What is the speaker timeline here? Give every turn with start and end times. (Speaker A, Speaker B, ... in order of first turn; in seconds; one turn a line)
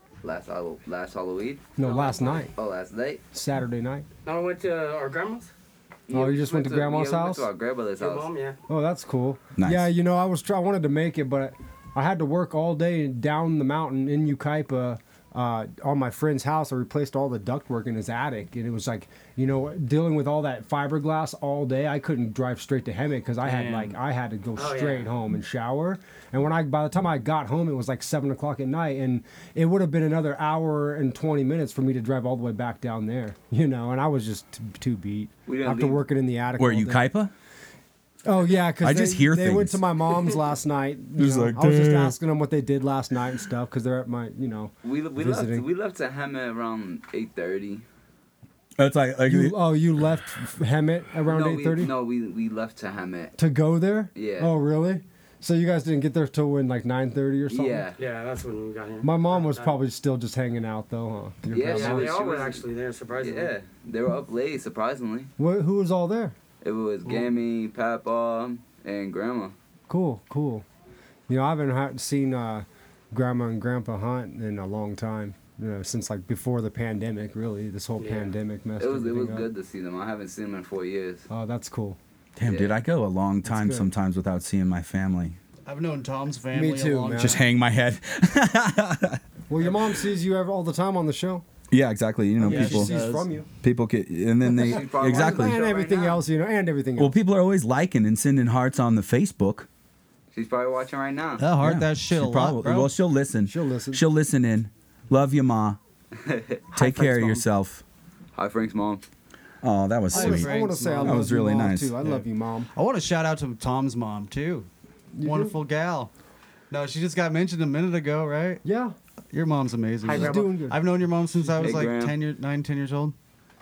Speaker A: 0.2-3.2
Speaker B: 1.8-2.5
Speaker C: 1.8-2.4
Speaker B: 3.3-4.1
Speaker C: 4.2-5.5
Speaker A: 6.1-8.3
Speaker B: 6.1-7.5
Speaker C: 8.0-8.6
Speaker B: 8.7-37.0
Speaker D: 9.6-9.9
Speaker E: 23.4-24.0
Speaker C: 24.6-25.1
Speaker A: 35.5-36.0
Speaker D: 36.6-37.3
Speaker B: 38.2-45.7
Speaker D: 38.8-39.8
Speaker D: 41.2-42.2
Speaker A: 44.8-47.8
Speaker D: 48.8-49.6
Speaker B: 49.3-51.9
Speaker A: 51.3-53.4
Speaker B: 53.4-57.8
Speaker A: 54.1-54.5
Speaker A: 57.5-58.0
Speaker C: 58.0-59.8
Speaker B: 59.0-62.1
Speaker A: 61.5-62.6
Speaker C: 61.6-63.5
Speaker A: 63.2-65.3
Speaker B: 65.4-66.3
Speaker A: 66.6-69.5
Speaker B: 69.9-70.7
Speaker B: 71.3-79.5
Speaker C: 78.0-78.3
Speaker A: 78.8-81.3
Speaker B: 81.3-82.0
Speaker D: 82.4-85.4
Speaker A: 82.4-82.8
Speaker B: 83.5-83.9
Speaker E: 85.7-87.5
Speaker B: 86.5-87.4
Speaker D: 87.2-89.2
Speaker B: 89.5-91.4
Speaker D: 91.7-92.9
Speaker B: 92.4-93.5
Speaker E: 92.4-93.3
Speaker D: 93.6-95.6
Speaker A: 94.5-96.2
Speaker B: 94.9-97.2
Speaker D: 97.0-99.7
Speaker A: 100.3-101.5
Speaker E: 101.4-102.9
Speaker D: 101.6-105.8
Speaker B: 103.5-104.0
Speaker A: 106.2-106.6
Speaker C: 106.7-107.4
Speaker D: 106.7-107.8
Speaker A: 108.4-109.0
Speaker D: 109.6-111.9
Speaker E: 110.1-111.3
Speaker B: 110.1-112.7
Speaker E: 112.0-114.7
Speaker B: 115.2-115.5
Speaker E: 115.2-116.1
Speaker E: 116.7-118.6
Speaker B: 118.6-118.9
Speaker E: 119.3-123.2
Speaker C: 120.1-120.4
Speaker B: 120.1-120.8
Speaker B: 121.3-121.8
Speaker A: 121.6-122.2